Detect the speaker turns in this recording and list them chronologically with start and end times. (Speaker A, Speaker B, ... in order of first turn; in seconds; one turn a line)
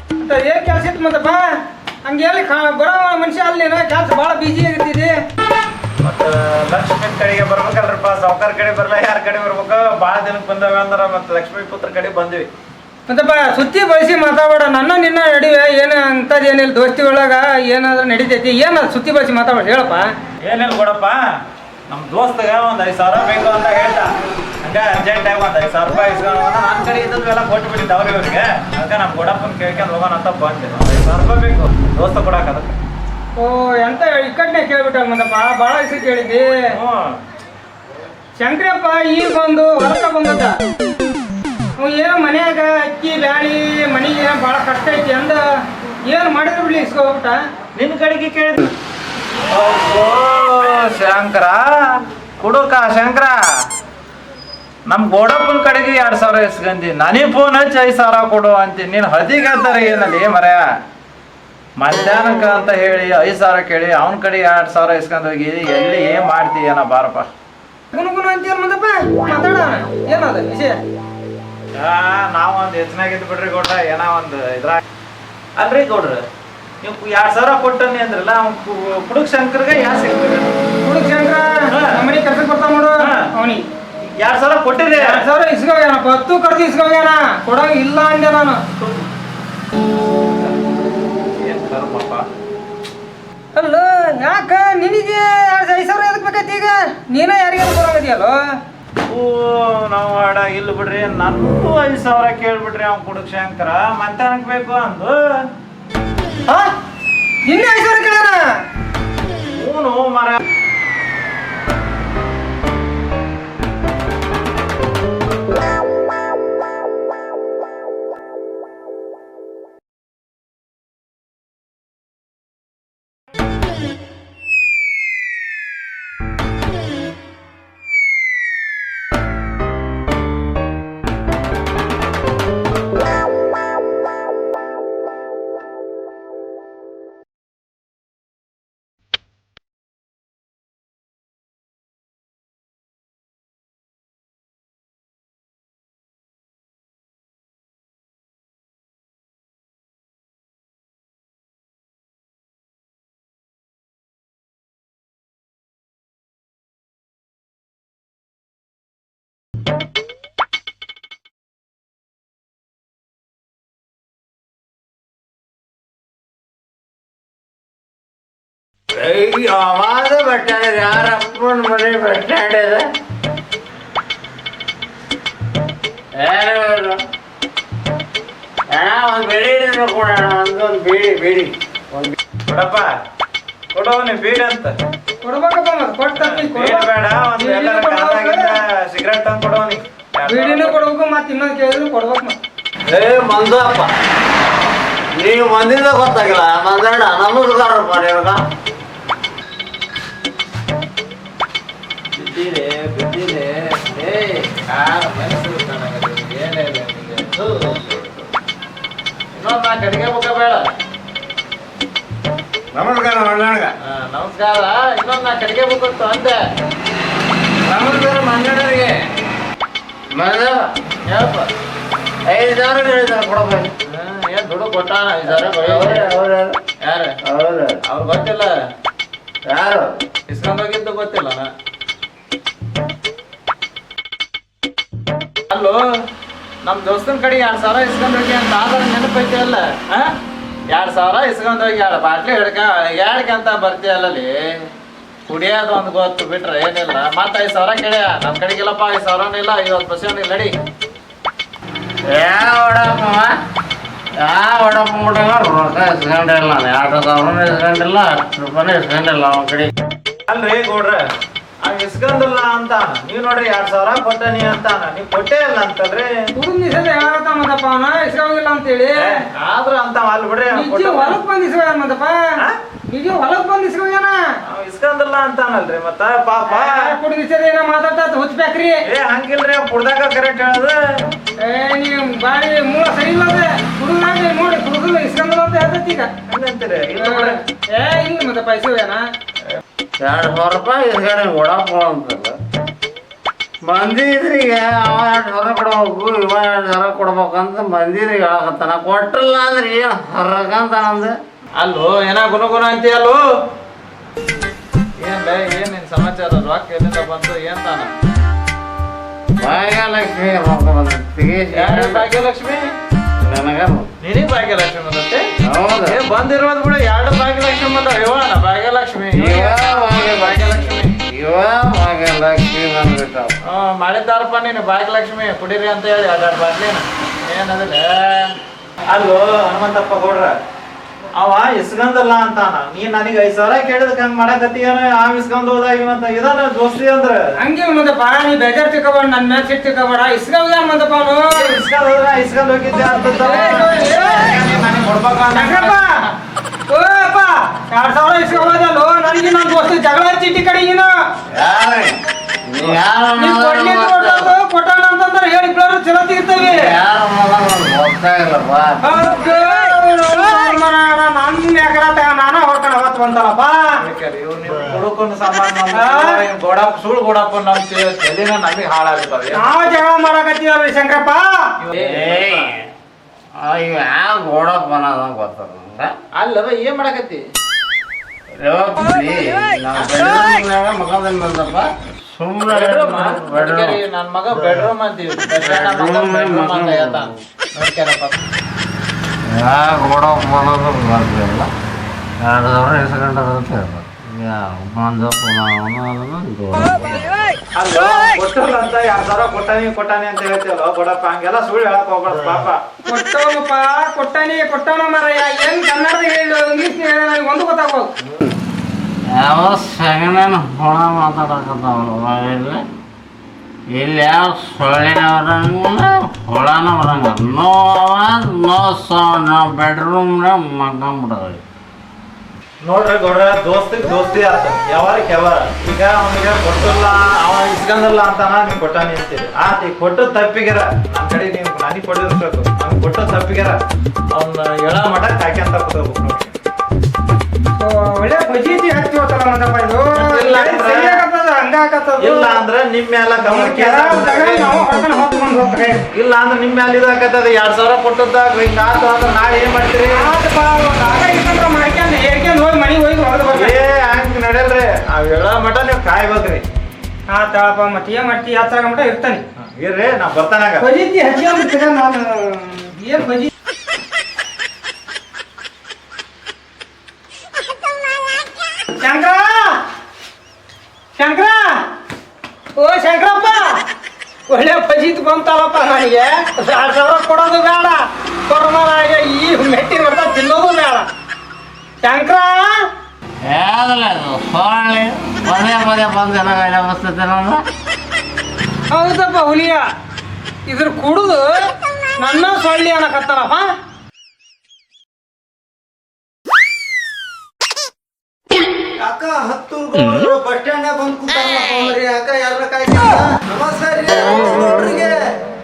Speaker A: 0.2-5.1
Speaker B: 6.0-12.5
Speaker A: 13.1-20.1
Speaker B: 20.4-21.2
Speaker B: 21.9-32.8
Speaker A: 33.4-36.7
Speaker B: 36.7-37.2
Speaker A: 38.4-40.6
Speaker A: 41.8-45.4
Speaker A: 46.1-47.4
Speaker B: 47.8-48.7
Speaker B: 49.5-53.4
Speaker B: 54.9-60.7
Speaker B: 61.8-67.3
Speaker A: 67.9-70.8
Speaker B: 71.8-74.8
Speaker B: 75.6-76.2
Speaker B: 76.8-80.6
Speaker A: 80.8-83.6
Speaker B: 81.7-82.0
Speaker B: 83.0-83.3
Speaker B: 84.2-85.2
Speaker A: 85.0-88.6
Speaker B: 91.4-92.3
Speaker A: 93.5-98.4
Speaker B: 99.1-105.2
Speaker A: 107.5-108.5
Speaker B: 109.6-110.4
Speaker C: 168.9-172.9
Speaker C: 176.2-177.0
Speaker C: 178.7-182.2
Speaker B: 182.5-182.9
Speaker B: 183.7-184.8
Speaker A: 185.2-188.6
Speaker B: 186.2-190.8
Speaker A: 190.3-192.4
Speaker C: 193.0-193.7
Speaker C: 195.2-198.4
Speaker B: 202.1-208.2
Speaker B: 209.3-210.7
Speaker C: 212.7-213.7
Speaker B: 213.8-216.4
Speaker B: 217.7-219.0
Speaker C: 220.1-220.7
Speaker B: 221.1-221.5
Speaker C: 222.3-223.7
Speaker B: 223.9-226.1
Speaker C: 225.2-226.6
Speaker B: 226.8-227.2
Speaker C: 227.2-227.8
Speaker B: 227.8-228.6
Speaker C: 229.5-229.9
Speaker B: 230.3-231.5
Speaker B: 235.5-235.8
Speaker B: 236.6-240.1
Speaker B: 240.7-244.4
Speaker B: 245.3-250.5
Speaker C: 252.1-253.3
Speaker C: 254.2-259.7
Speaker B: 260.3-261.1
Speaker B: 261.6-266.3
Speaker A: 266.4-269.3
Speaker B: 269.0-271.2
Speaker A: 270.5-272.2
Speaker A: 272.9-274.2
Speaker B: 274.4-276.9
Speaker A: 276.5-278.8
Speaker B: 278.9-280.8
Speaker A: 281.4-286.1
Speaker B: 286.3-287.4
Speaker A: 287.0-289.0
Speaker C: 290.0-292.4
Speaker C: 293.6-301.1
Speaker B: 301.6-303.2
Speaker B: 305.0-307.9
Speaker C: 309.4-312.1
Speaker B: 311.5-312.6
Speaker C: 313.2-313.9
Speaker B: 314.0-315.2
Speaker C: 315.4-316.0
Speaker B: 315.9-321.0
Speaker C: 319.1-323.4
Speaker B: 323.5-328.4
Speaker B: 328.9-330.3
Speaker B: 331.2-337.2
Speaker A: 337.4-341.5
Speaker B: 341.3-345.8
Speaker A: 343.2-344.4
Speaker A: 345.3-345.9
Speaker A: 346.7-350.9
Speaker C: 351.3-354.3
Speaker A: 353.2-356.7
Speaker C: 356.4-359.0
Speaker A: 358.8-363.7
Speaker B: 363.8-369.5
Speaker A: 365.7-366.2
Speaker A: 369.3-371.5
Speaker B: 371.6-372.5
Speaker C: 371.7-372.7
Speaker C: 373.4-375.9
Speaker B: 376.1-377.2
Speaker C: 378.4-383.8
Speaker B: 382.5-388.2
Speaker C: 385.4-387.2
Speaker C: 389.3-391.5
Speaker C: 392.2-397.1
Speaker B: 397.6-402.6
Speaker A: 402.9-407.9
Speaker C: 409.1-412.6
Speaker C: 413.7-421.4
Speaker B: 422.6-433.6
Speaker B: 434.1-436.3
Speaker A: 437.6-442.4
Speaker B: 439.9-441.0
Speaker B: 442.0-444.6
Speaker A: 443.2-445.8
Speaker B: 445.9-450.1
Speaker A: 449.9-453.6
Speaker B: 453.3-456.4
Speaker A: 457.1-459.2
Speaker B: 459.4-460.6
Speaker A: 460.6-463.3
Speaker A: 468.8-469.6
Speaker A: 471.0-471.6
Speaker A: 472.6-473.6
Speaker A: 474.3-480.9
Speaker A: 481.8-482.6
Speaker C: 483.2-487.4
Speaker A: 488.7-489.6
Speaker A: 490.5-493.5
Speaker D: 498.8-505.0